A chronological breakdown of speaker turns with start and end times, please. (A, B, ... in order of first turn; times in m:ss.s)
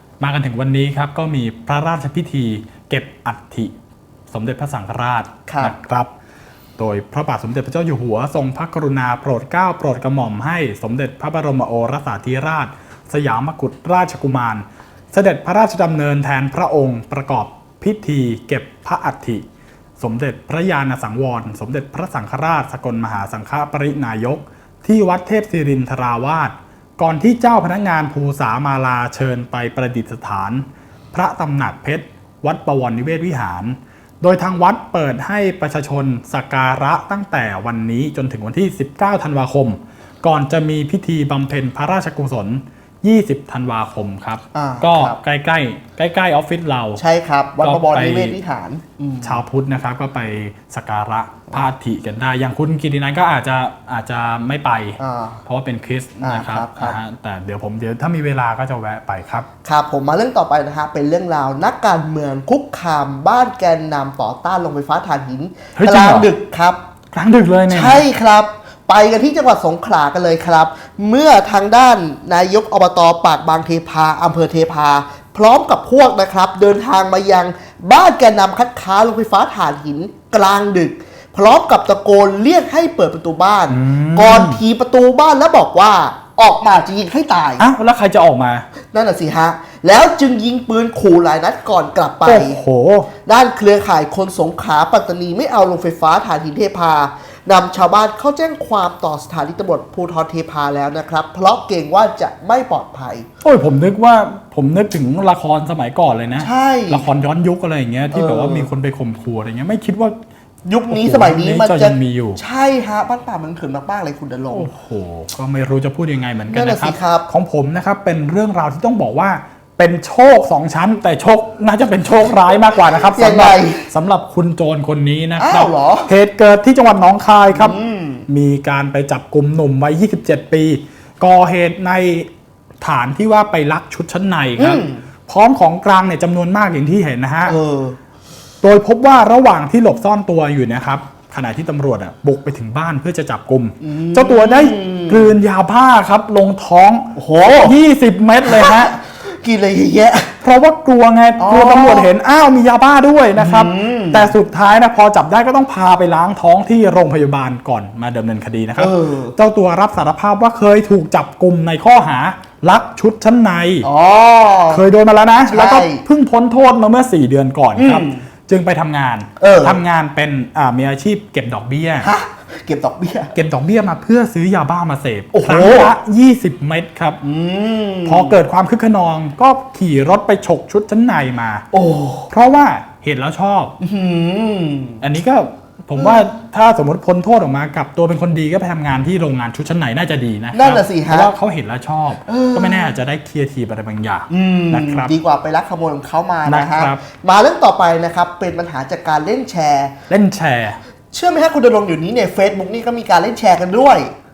0:00.2-0:03.7 A
0:04.3-0:06.1 A
0:05.5-0:05.8 B
0:06.8-0:19.4 A
0:20.0-0:47.0 A
0:44.5-0:45.2 B
0:47.0-0:49.4 B
0:47.6-0:48.4 A
0:49.2-0:59.5 A
0:55.0-0:55.4 B
0:56.2-0:57.0 B
0:59.6-1:06.8 B
1:05.8-1:06.3 A
1:07.1-1:08.0 A
1:07.7-1:27.7 B
1:23.7-1:24.6 A
1:27.6-1:28.7 A
1:28.9-1:32.6 B
1:32.2-1:33.1 A
1:33.2-1:43.3 B
1:43.4-1:50.2 A
1:46.4-1:47.1 B
1:48.1-1:48.7 B
1:50.6-1:54.7 B
1:50.9-1:52.4 A
1:54.5-2:12.3 A
1:56.5-1:57.3 B
2:02.9-2:03.9 B
2:05.4-2:06.1 B
2:07.5-2:08.3 B
2:12.8-2:17.6 A
2:14.6-2:15.0 B
2:17.5-2:18.0 B
2:18.6-2:28.9 A
2:23.8-2:25.3 B
2:27.2-2:27.8 B
2:28.4-2:30.3 B
2:30.4-2:43.9 A
2:31.4-2:32.1 B
2:33.4-2:34.3 B
2:38.8-2:39.4 B
2:43.8-2:44.8 B
2:44.7-2:52.1 A
2:45.5-2:46.0 B
2:47.8-2:48.2 B
2:49.4-2:49.8 B
2:52.0-2:53.3 B
2:53.3-2:57.2 A
2:55.3-2:55.9 B
2:57.2-2:58.4 B
2:58.0-3:01.6 A
3:01.7-3:02.3 B
3:02.3-3:03.8 A
3:03.8-3:05.0 B
3:05.0-3:15.1 A
3:10.5-3:11.3 B
3:12.3-3:13.0 B
3:14.3-3:20.0 B
3:16.5-3:17.0 A
3:20.1-3:20.8 A
3:21.1-3:24.1 B